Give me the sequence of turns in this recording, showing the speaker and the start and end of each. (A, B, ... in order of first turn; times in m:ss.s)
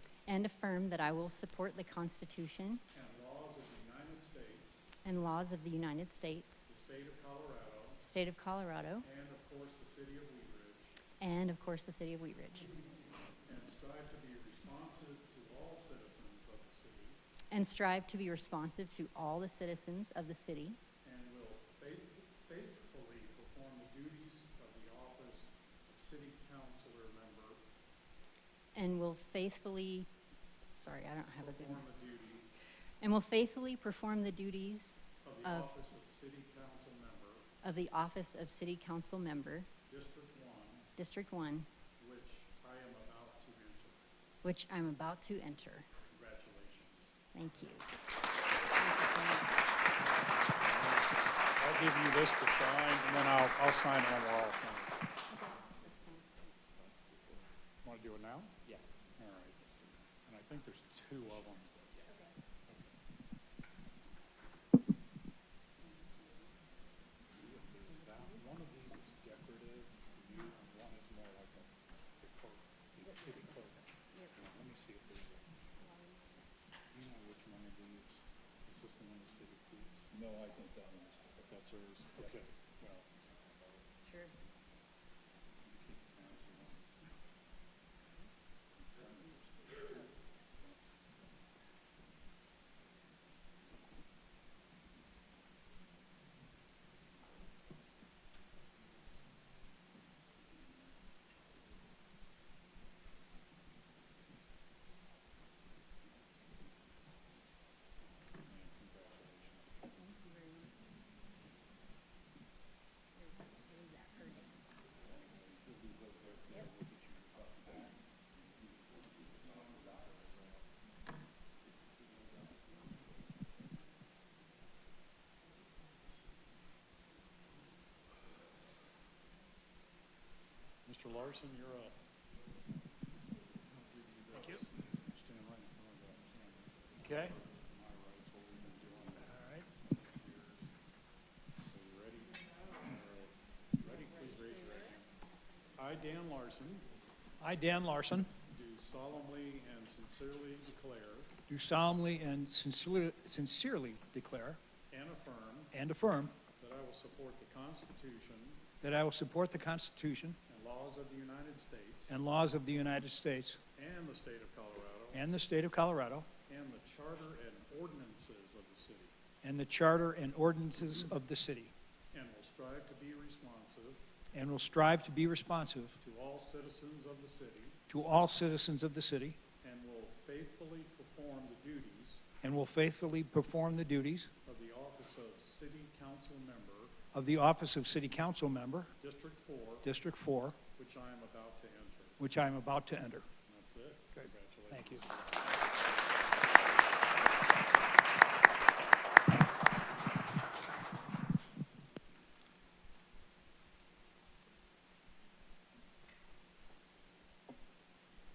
0:00.3-0:02.8 A
0:02.9-0:04.9 B
0:05.0-0:06.6 A
0:06.7-0:08.0 B
0:08.0-0:09.0 A
0:09.0-0:11.0 B
0:11.2-0:12.7 A
0:13.4-0:17.2 B
0:17.5-0:20.8 A
0:21.0-0:27.6 B
0:28.8-0:30.1 A
0:30.6-0:31.8 A
0:31.4-0:32.6 B
0:33.0-0:35.7 A
0:35.2-0:37.5 B
0:37.6-0:39.7 A
0:39.9-0:40.9 B
0:41.0-0:41.7 A
0:42.0-0:44.0 B
0:44.4-0:45.9 A
0:46.1-0:47.1 B
0:47.3-0:47.9 A
0:48.8-0:49.6 A
0:50.6-0:55.0 B
0:55.3-0:56.5 A
0:57.8-0:58.6 B
0:59.2-0:59.7 B
1:00.2-1:01.8 B
1:07.3-1:15.5 B
1:15.8-1:16.4 A
1:16.9-1:20.1 B
1:20.2-1:21.3 C
1:21.4-1:23.8 B
1:24.0-1:24.3 A
1:25.6-1:26.8 B
1:29.0-1:29.8 B
1:48.4-1:50.0 B
1:50.0-1:50.7 A
1:53.2-1:54.5 A
1:55.3-1:57.9 B
2:10.9-2:12.0 B
2:13.8-2:20.7 B
2:19.4-2:19.6 C
2:21.7-2:25.1 B
2:25.8-2:26.9 B
2:27.4-2:28.3 C
2:28.5-2:31.3 B
2:31.5-2:34.6 C
2:34.9-2:35.7 B
2:35.7-2:36.4 C
2:36.6-2:38.6 B
2:38.8-2:40.4 C
2:40.5-2:42.1 B
2:42.1-2:43.6 C
2:43.8-2:45.2 B
2:45.1-2:46.3 C
2:46.5-2:49.2 B
2:49.4-2:51.7 C
2:52.1-2:54.0 B
2:54.3-2:56.0 C
2:56.0-2:57.8 B
2:57.9-2:59.4 C
2:59.6-3:02.2 B
3:02.4-3:04.3 C
3:04.4-3:07.0 B
3:07.1-3:08.9 C
3:09.0-3:09.9 B
3:09.8-3:10.6 C
3:10.8-3:12.2 B
3:12.2-3:13.3 C
3:13.5-3:16.0 B
3:14.2-3:15.0 C